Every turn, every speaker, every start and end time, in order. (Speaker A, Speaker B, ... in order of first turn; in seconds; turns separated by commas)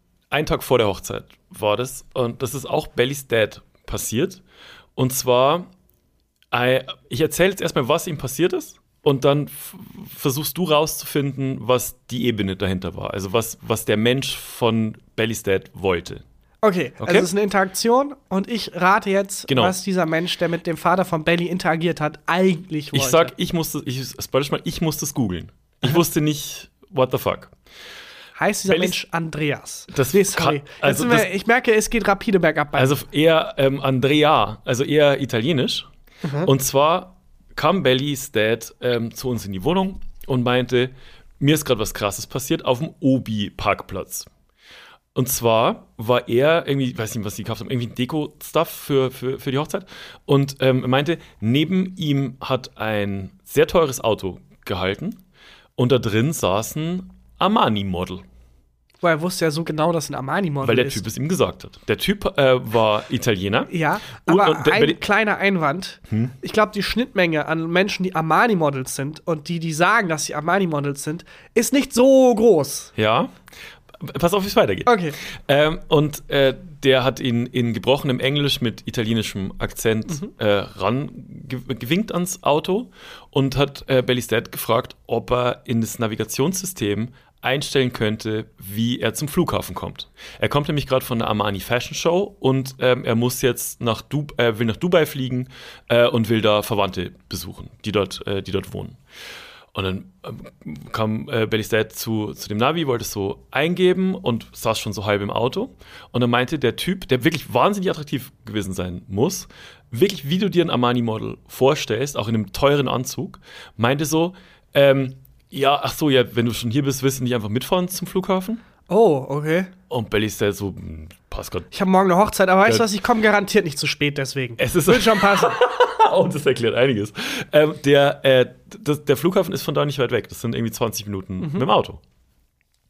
Speaker A: 0.3-4.4, Speaker A: 5.0-5.7, Speaker A: 6.5-16.2, Speaker B: 16.6-23.3, Speaker A: 17.0-17.3, Speaker A: 19.5-19.7, Speaker A: 22.9-27.5, Speaker B: 28.4-33.0, Speaker A: 28.7-29.0, Speaker A: 29.9-31.3, Speaker A: 32.8-35.9, Speaker B: 36.2-36.5, Speaker A: 36.4-44.3, Speaker A: 45.1-55.2, Speaker A: 55.8-58.2, Speaker B: 59.0-61.0, Speaker A: 60.6-65.0, Speaker B: 63.7-72.9, Speaker A: 73.0-73.3, Speaker A: 74.0-99.0, Speaker B: 74.8-75.2, Speaker A: 99.7-118.6, Speaker B: 118.9-119.7, Speaker A: 119.9-121.7, Speaker B: 121.7-125.5, Speaker A: 124.6-132.0, Speaker B: 131.4-131.7